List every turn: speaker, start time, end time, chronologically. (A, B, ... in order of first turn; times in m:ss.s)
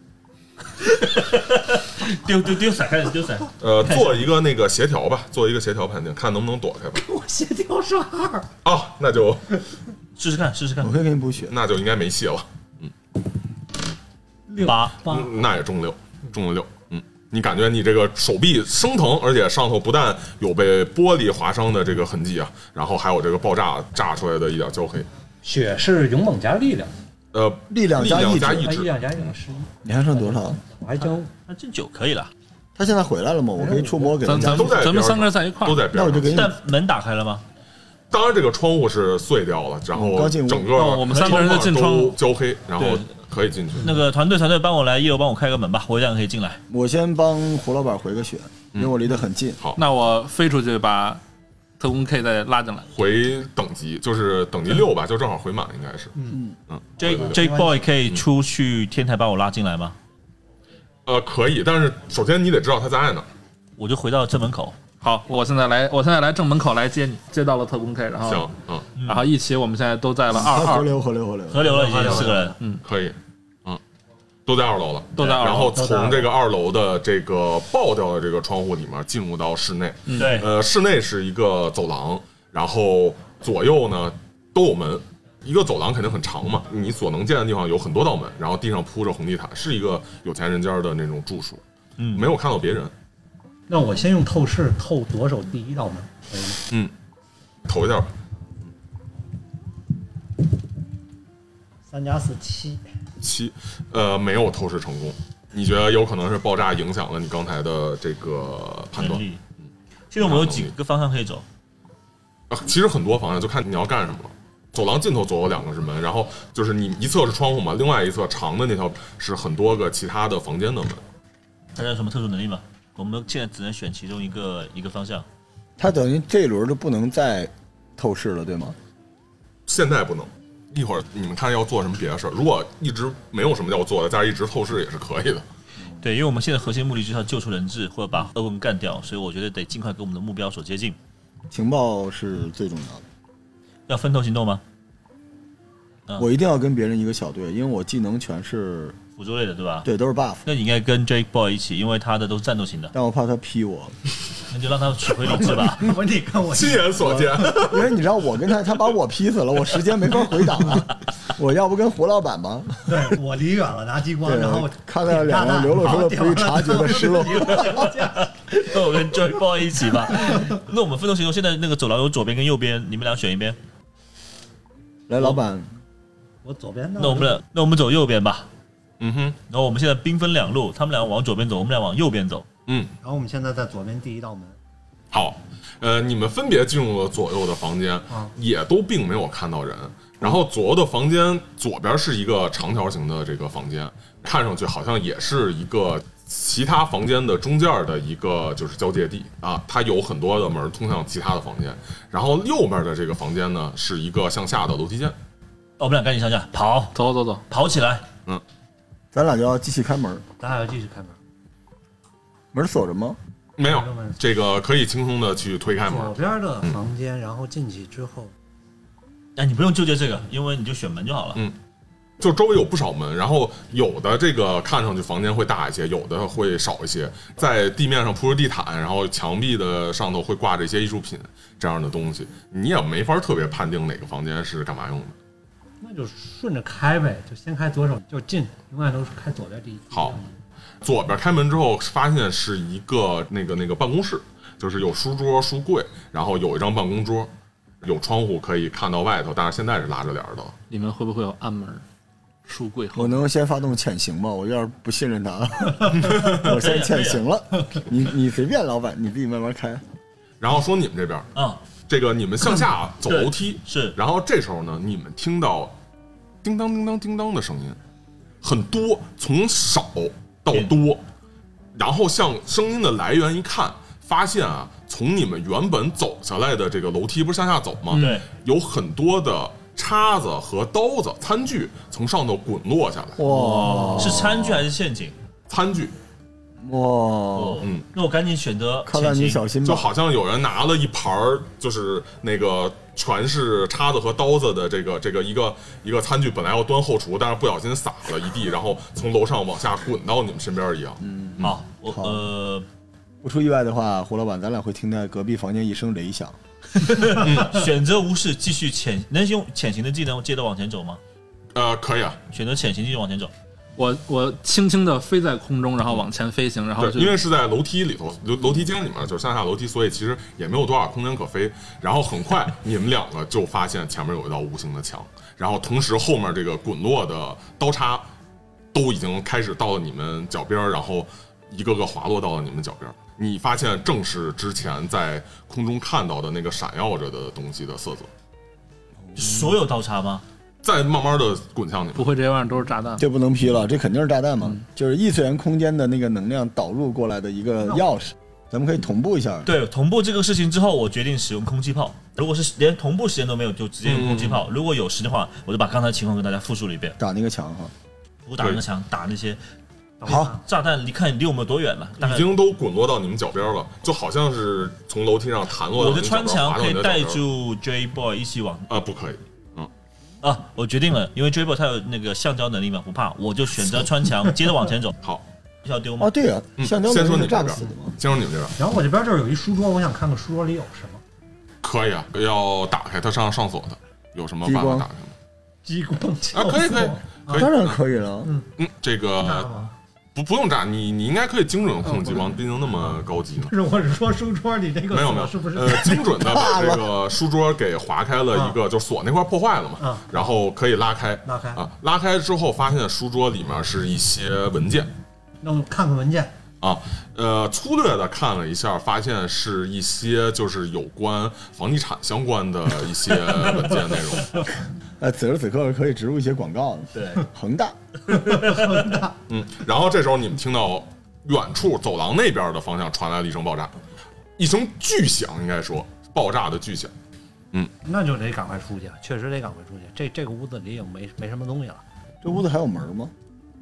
0:00.8-0:04.3 A
0:03.6-0:07.0 B
0:07.0-0:08.5 C
0:08.6-0:09.5 B
0:10.2-0:11.0 A
0:10.8-0:11.5 D
0:11.5-0:12.9 B
0:14.5-0:15.3 C
0:14.6-0:15.0 A
0:15.0-0:25.1 B
0:25.4-0:26.9 C
0:27.3-0:28.9 B
0:27.7-0:28.7 D
0:28.2-0:31.3 C
0:29.8-0:30.6 D
0:31.5-0:32.3 A
0:32.8-0:34.9 D
0:33.6-0:34.2 C
0:34.2-0:35.9 E
0:34.3-0:36.5 B
0:35.9-0:36.6 D
0:36.3-0:37.4 A
0:38.1-0:43.9 B
0:39.9-0:40.8 D
0:40.7-0:42.2 E
0:42.8-0:43.1 A
0:43.8-0:46.6 A
0:46.7-0:49.6 D
0:49.8-0:51.2 E
0:51.8-0:52.9 E
0:52.9-0:56.1 B
0:56.2-0:56.4 C
0:56.3-0:56.6 D
0:56.7-0:57.4 B
0:57.0-1:00.0 A
0:57.2-0:57.8 C
1:01.1-1:03.3 B
1:03.8-1:04.8 A
1:05.0-1:08.5 E
1:08.2-1:08.9 B
1:09.0-1:09.3 A
1:09.0-1:10.9 E
1:10.3-1:11.7 D
1:11.5-1:12.6 A
1:11.6-1:12.6 C
1:12.8-1:13.8 B
1:14.5-1:31.6 B
1:15.2-1:15.8 E
1:15.6-1:16.3 C
1:20.1-1:20.4 E
1:20.2-1:20.5 A
1:32.0-1:32.3 A
1:32.1-1:32.9 B
1:33.7-1:36.6 C
1:37.7-1:38.1 B
1:41.9-1:42.8 C
1:43.2-1:49.2 B
1:49.0-1:49.4 A
1:50.1-1:51.4 A
1:50.2-1:50.7 B
1:52.5-2:01.0 B
2:01.8-2:05.3 A
2:05.8-2:08.8 D
2:09.7-2:15.4 B
2:16.0-2:21.0 A
2:21.5-2:23.0 D
2:23.9-2:24.6 A
2:26.2-2:29.0 D
2:29.2-2:29.9 A
2:29.8-2:30.4 D
2:30.5-2:32.9 A
2:32.9-2:34.0 D
2:34.5-2:35.9 A
2:35.7-2:37.4 C
2:36.5-2:37.9 B
2:37.0-2:43.1 D
2:42.9-2:48.3 C
2:44.2-2:47.9 D
2:47.6-2:53.6 A
2:55.1-2:55.7 D
2:56.4-2:57.4 C
2:57.0-2:58.5 A
2:59.0-2:59.4 B
2:59.5-3:02.5 A
3:02.7-3:02.9 B
3:03.0-3:04.6 C
3:05.1-3:25.2 B
3:25.8-3:27.0 A
3:27.0-3:27.4 E
3:27.5-3:28.0 A
3:29.1-3:30.2 D
3:30.4-3:31.2 C
3:32.5-3:33.2 D
3:33.6-3:36.8 B
3:33.6-3:34.2 C
3:35.8-3:38.3 C
3:39.4-3:41.4 A
3:42.2-3:55.2 B
3:55.8-4:00.4 C
4:00.8-4:07.3 B
4:07.8-4:10.6 B
4:10.7-4:11.8 E
4:12.4-4:13.2 E
4:12.9-4:19.8 D
4:15.9-4:16.5 B
4:16.2-4:17.2 A
4:20.4-4:21.3 B
4:21.4-4:21.6 A
4:21.9-4:25.8 B
4:23.1-4:24.0 A
4:26.4-4:27.8 B
4:28.4-4:31.0 B
4:31.8-4:43.2 B
4:37.9-4:38.3 A
4:37.9-4:38.2 E
4:43.2-4:44.6 D
4:43.4-4:45.2 A
4:45.5-4:45.9 B
4:46.6-4:47.7 D
4:47.4-4:49.5 A
4:48.9-4:49.9 D
4:49.6-5:01.6 B
5:01.0-5:02.2 D
5:01.4-5:02.7 A
5:03.2-5:06.4 D
5:06.8-5:11.0 A
5:07.2-5:07.6 B
5:11.5-5:12.2 B
5:12.3-5:13.3 A
5:13.8-5:17.2 E
5:16.8-5:28.1 B
5:28.7-5:38.1 B
5:39.2-5:40.2 A
5:40.6-5:42.1 B
5:42.0-5:43.0 E
5:43.0-5:49.5 D
5:49.4-5:57.0 A
5:53.8-5:54.4 B
5:57.0-5:57.7 D
5:58.3-5:59.4 A
6:00.0-6:00.4 C
6:00.1-6:02.4 A
6:02.0-6:07.2 B
6:05.7-6:08.7 A
6:08.7-6:09.7 B
6:10.2-6:15.0 A
6:15.6-6:16.1 A
6:16.0-6:18.0 D
6:16.6-6:18.6 B
6:18.6-6:21.0 C
6:21.6-6:25.1 B
6:24.4-6:24.9 D
6:25.6-6:27.5 C
6:26.3-6:27.8 B
6:27.3-6:28.3 D
6:28.6-6:29.5 B
6:29.2-6:29.7 C
6:30.2-6:33.5 B
6:33.5-6:36.1 C
6:34.9-6:44.9 B
6:36.1-6:36.8 D
6:39.8-6:40.2 C
6:41.2-6:41.6 C
6:45.4-6:46.3 C
6:46.6-6:54.5 B
6:55.0-6:57.8 D
6:56.9-6:57.2 A
6:58.1-6:59.1 C
6:58.1-6:58.8 A
6:59.3-7:03.8 B
7:04.4-7:06.9 B
7:07.8-7:11.8 C
7:12.2-7:13.1 D